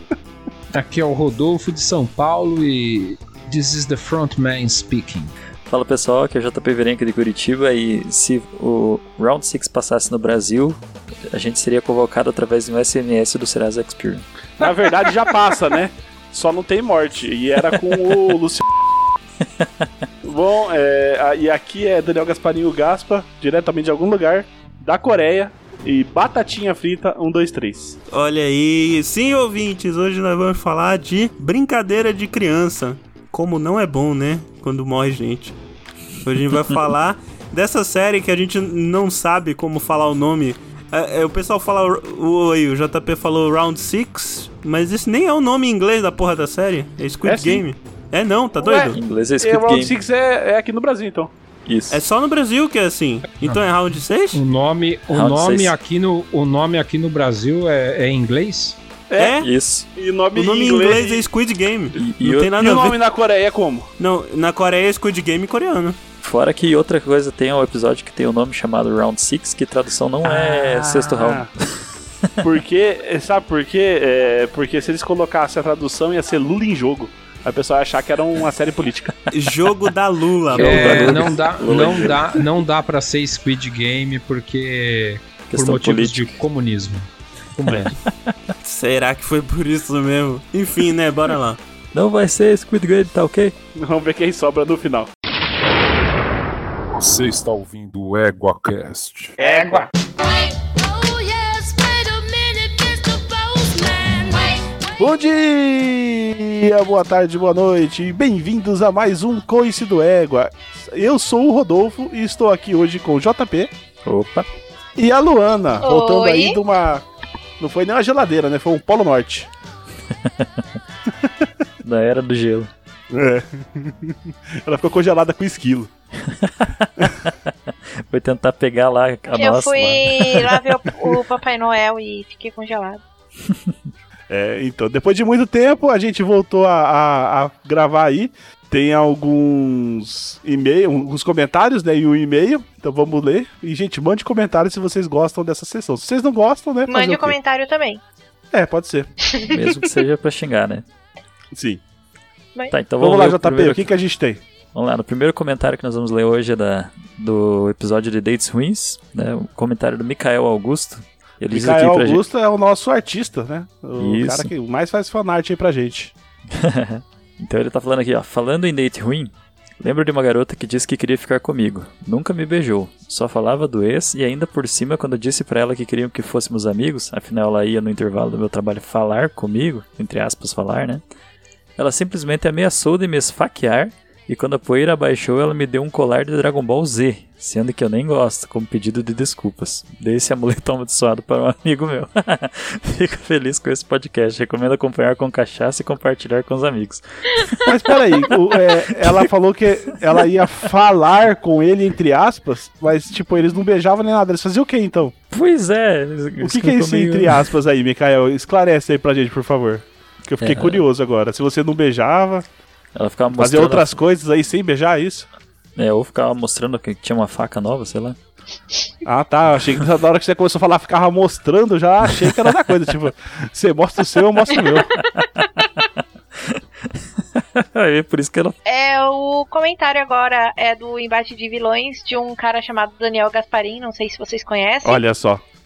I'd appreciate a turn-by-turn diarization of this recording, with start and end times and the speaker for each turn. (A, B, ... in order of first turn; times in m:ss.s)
0:00.7-0:05.3 A
0:05.7-0:14.2 B
0:14.6-0:18.8 C
0:19.6-0:19.9 B
0:20.2-0:28.0 C
0:28.1-0:35.6 D
0:36.2-0:48.9 D
0:47.2-0:47.6 C
0:48.6-0:51.3 C
0:48.8-0:50.0 B
0:51.6-0:52.0 B
0:51.9-0:54.4 D
0:54.3-0:58.8 A
0:55.1-0:55.7 B
0:59.1-1:01.2 C
0:59.2-0:59.5 D
0:59.4-0:59.9 B
1:00.3-1:03.0 D
1:02.0-1:02.5 B
1:02.5-1:03.9 C
1:04.0-1:06.0 D
1:06.2-1:12.3 B
1:10.2-1:11.5 C
1:12.4-1:19.1 C
1:19.3-1:21.3 D
1:20.5-1:22.5 B
1:20.5-1:28.0 A
1:25.5-1:26.4 B
1:27.7-1:28.4 B
1:28.6-1:31.6 D
1:31.9-1:33.6 B
1:33.7-1:35.1 C
1:37.0-1:39.4 E
1:39.4-1:39.9 C
1:40.2-1:45.0 F
1:45.0-1:53.7 C
1:54.0-1:54.5 B
1:55.0-1:57.0 C
1:55.8-1:56.6 G
1:57.6-1:59.5 C
2:00.2-2:00.6 B
2:01.8-2:02.7 B
2:03.1-2:05.9 C
2:06.2-2:07.5 B
2:08.1-2:11.1 B
2:09.4-2:13.0 G
2:14.3-2:27.3 C
2:26.9-2:28.0 G
2:28.5-2:29.1 C
2:29.3-2:29.9 G
2:29.4-2:30.8 B
2:31.5-2:31.8 C
2:32.7-2:33.9 B
2:33.0-2:34.4 C
2:34.7-2:42.2 B
2:41.5-2:46.1 C
2:44.0-2:44.5 B
2:46.5-3:01.0 B
3:01.8-3:18.0 B
3:17.6-3:25.1 C
3:18.9-3:19.2 B
3:25.3-3:27.5 B
3:26.4-3:32.4 C
3:30.4-3:30.8 B
3:33.0-3:34.0 B
3:33.4-3:35.3 C
3:35.8-3:38.2 B
3:39.0-3:45.0 C
3:45.0-3:45.7 G
3:46.4-3:48.6 B
3:48.6-3:55.0 G
3:54.8-3:55.4 C